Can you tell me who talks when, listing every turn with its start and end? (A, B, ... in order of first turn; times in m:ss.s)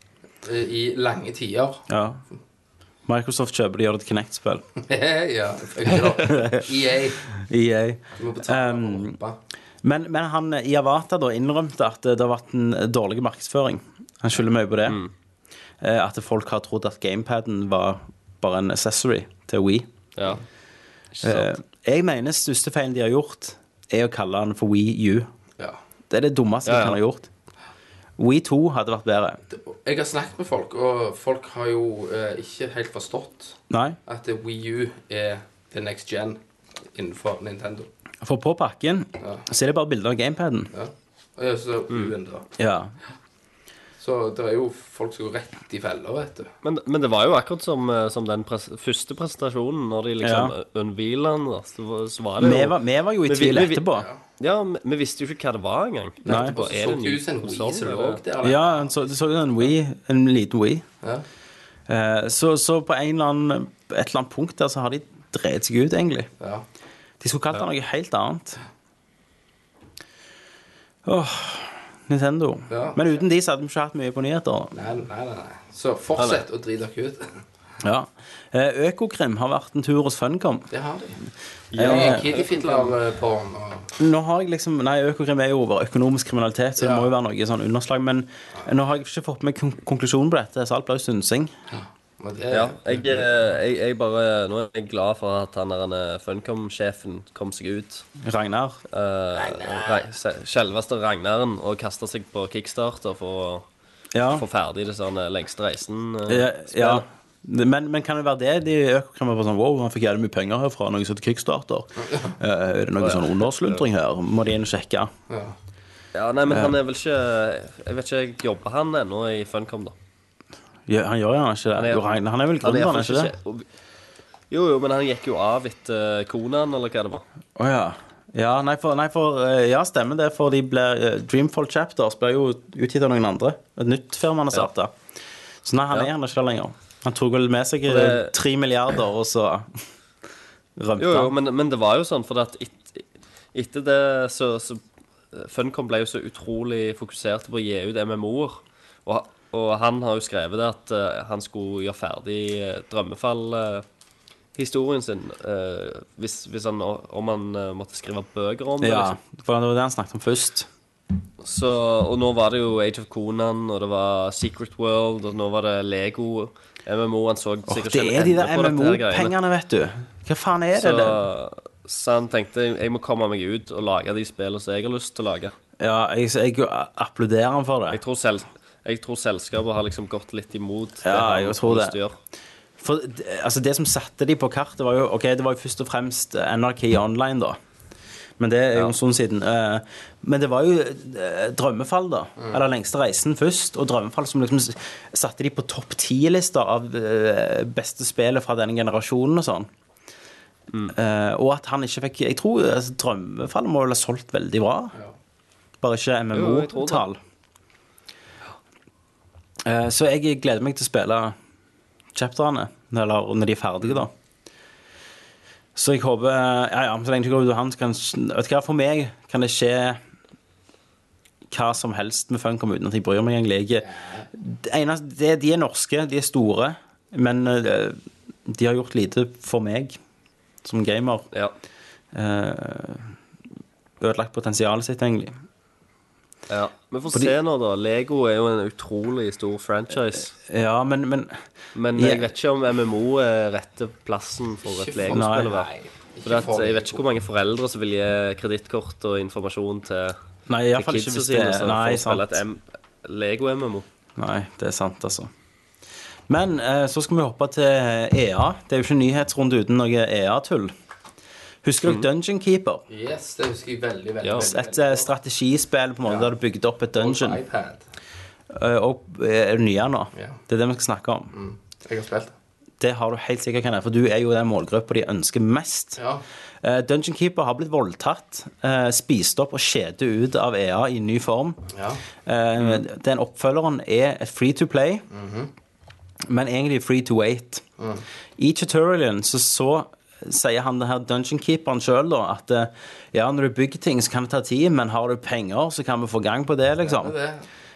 0:00.4-0:01.8 A
0:01.9-0:02.2 B
0:03.1-0:04.6 B
0:04.8-0:07.2 A
0:06.3-0:06.6 B
0:07.4-0:09.2 B
0:08.1-0:09.4 A
0:09.8-0:15.0 B
0:15.8-0:19.9 B
0:20.2-0:20.4 C
0:21.1-0:21.5 C
0:21.2-0:25.3 B
0:26.1-0:27.3 B
0:26.6-0:27.0 C
0:28.2-0:29.4 B
0:29.5-0:36.4 A
0:33.7-0:34.0 B
0:36.9-0:37.9 A
0:38.2-0:40.7 B
0:39.2-0:39.4 A
0:40.7-0:42.5 A
0:42.6-0:42.9 B
0:44.0-0:46.5 A
0:46.6-0:53.9 C
0:50.2-0:50.5 B
0:52.4-0:54.1 B
0:53.9-0:54.2 A
0:54.4-0:58.2 C
0:56.2-0:59.0 A
0:56.2-0:56.6 B
0:58.4-1:00.8 B
1:01.9-1:06.3 B
1:06.4-1:06.6 A
1:07.2-1:08.6 B
1:11.0-1:14.8 B
1:12.7-1:13.2 A
1:14.7-1:17.4 A
1:17.8-1:20.7 B
1:20.7-1:21.2 A
1:21.7-1:22.9 C
1:21.7-1:22.2 B
1:21.8-1:23.9 A
1:24.0-1:31.5 B
1:26.8-1:27.1 A
1:31.7-1:33.4 A
1:32.5-1:38.0 C
1:38.2-1:38.8 B
1:38.9-1:43.6 C
1:39.4-1:40.1 A
1:44.1-1:44.4 B
1:44.3-1:47.0 C
1:46.3-1:55.1 B
1:52.0-1:52.3 A
1:53.0-1:53.8 C
1:55.3-1:55.6 A
1:56.1-1:59.9 C
1:56.5-1:56.7 B
2:00.9-2:03.3 B
2:01.8-2:02.0 C
2:02.6-2:03.6 C
2:04.5-2:07.2 C
2:07.6-2:14.9 B
2:15.6-2:19.7 B
2:17.9-2:18.3 C
2:20.8-2:21.3 B
2:21.0-2:23.0 C
2:23.5-2:24.8 C
2:25.3-2:33.8 C
2:34.6-2:39.1 C
2:38.8-2:40.7 B
2:41.4-2:49.3 C
2:47.7-2:51.2 B
2:50.7-2:55.5 C
2:55.8-2:58.0 B
2:57.9-3:02.2 C
3:01.0-3:02.0 B
3:02.8-3:07.6 B
3:08.4-3:19.7 B
3:20.9-3:24.9 B
3:25.8-3:27.2 B
3:26.3-3:27.0 C
3:29.6-3:31.3 B
3:32.1-3:34.1 B
3:35.8-3:40.0 B
3:41.5-3:50.0 B
3:43.8-3:44.3 A
3:50.6-3:51.3 B
3:52.1-3:53.1 B
3:54.0-3:55.3 B
3:56.5-4:00.3 C
4:00.4-4:01.4 B
4:01.7-4:05.7 C
4:01.9-4:02.3 B
4:04.6-4:07.0 A
4:05.1-4:05.5 B
4:06.2-4:10.2 C
4:10.5-4:12.4 B
4:10.7-4:13.8 C
4:14.2-4:15.3 B
4:16.3-4:20.7 B
4:21.6-4:22.8 B
4:22.9-4:25.1 A
4:24.4-4:27.4 B
4:26.0-4:26.3 A
4:26.9-4:27.8 A
4:28.5-4:31.3 B
4:30.1-4:30.4 A
4:31.3-4:32.3 A
4:32.8-4:36.0 B
4:36.0-4:36.2 A
4:36.6-4:41.6 B
4:41.7-4:42.0 A
4:42.2-4:45.0 B
4:45.1-4:45.5 A
4:46.3-4:47.6 B
4:47.8-4:48.0 A
4:48.4-4:57.2 B
4:56.8-4:57.5 A